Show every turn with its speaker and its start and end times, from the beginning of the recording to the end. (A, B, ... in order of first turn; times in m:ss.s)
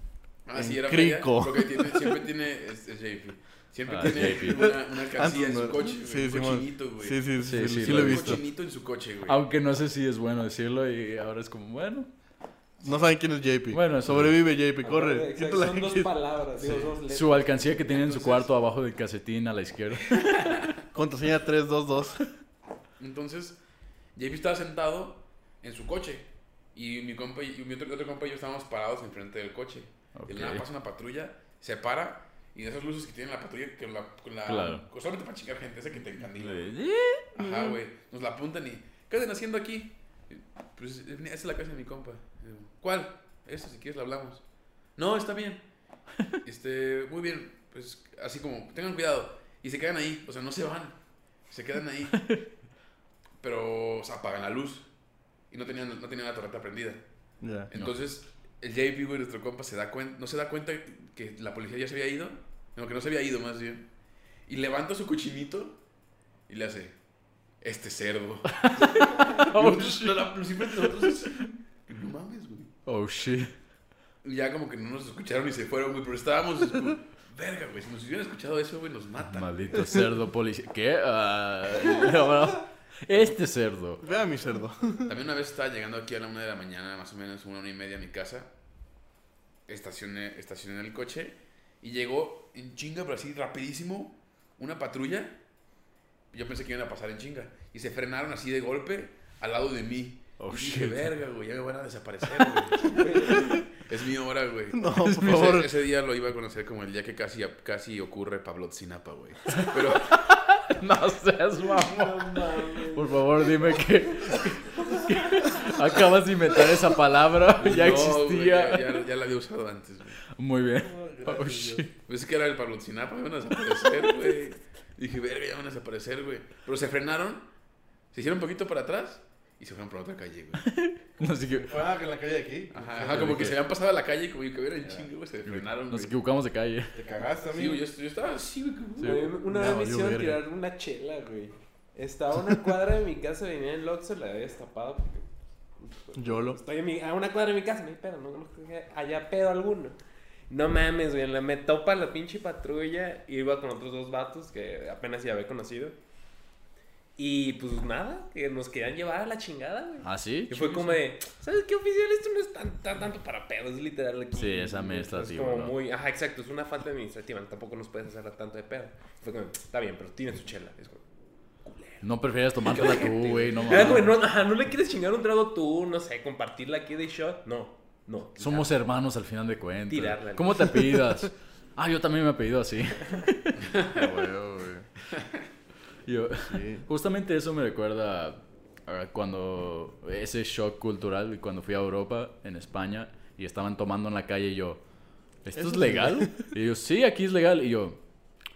0:00.4-0:07.2 A
0:00.5-0:02.2 B
0:03.9-0:04.7 C
0:04.1-0:08.4 B
0:07.4-0:08.4 C
0:07.8-0:09.4 A
0:09.3-0:12.1 C
0:12.8-0:16.1 B
0:13.7-0:14.4 C
0:14.8-0:18.4 D
0:17.1-0:20.6 C
0:20.9-0:22.3 B
0:23.0-0:23.6 A
0:24.1-0:36.7 A
0:30.2-0:30.7 C
0:34.4-0:34.8 C
0:36.3-0:37.8 C
0:37.4-0:44.4 A
0:45.0-0:45.7 A
0:46.4-0:51.0 A
0:51.5-0:52.4 A
0:53.4-0:54.9 A
0:55.5-0:57.0 A
0:57.4-0:57.7 B
0:57.7-1:03.9 A
1:04.5-1:05.8 A
1:06.5-1:07.0 A
1:07.6-1:12.7 A
1:08.6-1:11.2 C
1:12.9-1:13.5 C
1:14.2-1:20.0 A
1:19.3-1:24.0 C
1:24.0-1:25.2 B
1:25.1-1:28.5 A
1:29.7-1:35.4 A
1:36.3-1:50.3 A
1:40.4-1:41.1 B
1:42.9-1:43.6 D
1:44.7-1:45.7 B
1:45.1-1:45.5 C
1:49.6-1:59.0 C
1:51.7-1:55.3 D
1:57.6-2:00.2 A
2:00.4-2:01.9 C
2:00.8-2:01.8 B
2:02.0-2:07.5 A
2:08.1-2:10.7 A
2:10.6-2:11.8 C
2:11.3-2:13.5 B
2:12.7-2:16.2 A
2:13.0-2:13.6 C
2:14.8-2:15.1 B
2:15.4-2:17.0 C
2:16.9-2:17.8 B
2:17.5-2:19.2 A
2:19.0-2:20.4 B
2:19.0-2:30.0 D
2:26.2-2:26.6 B
2:30.5-2:36.0 D
2:37.2-2:51.0 D
2:40.0-2:41.0 C
2:44.4-2:45.8 C
2:51.6-2:52.0 D
2:52.0-2:54.2 C
2:52.6-2:58.7 D
2:58.4-3:03.7 C
2:59.9-3:01.0 D
3:03.6-3:04.0 A
3:03.9-3:04.9 B
3:05.1-3:05.4 A
3:06.1-3:14.8 C
3:06.5-3:06.9 B
3:15.4-3:18.0 C
3:15.6-3:16.5 B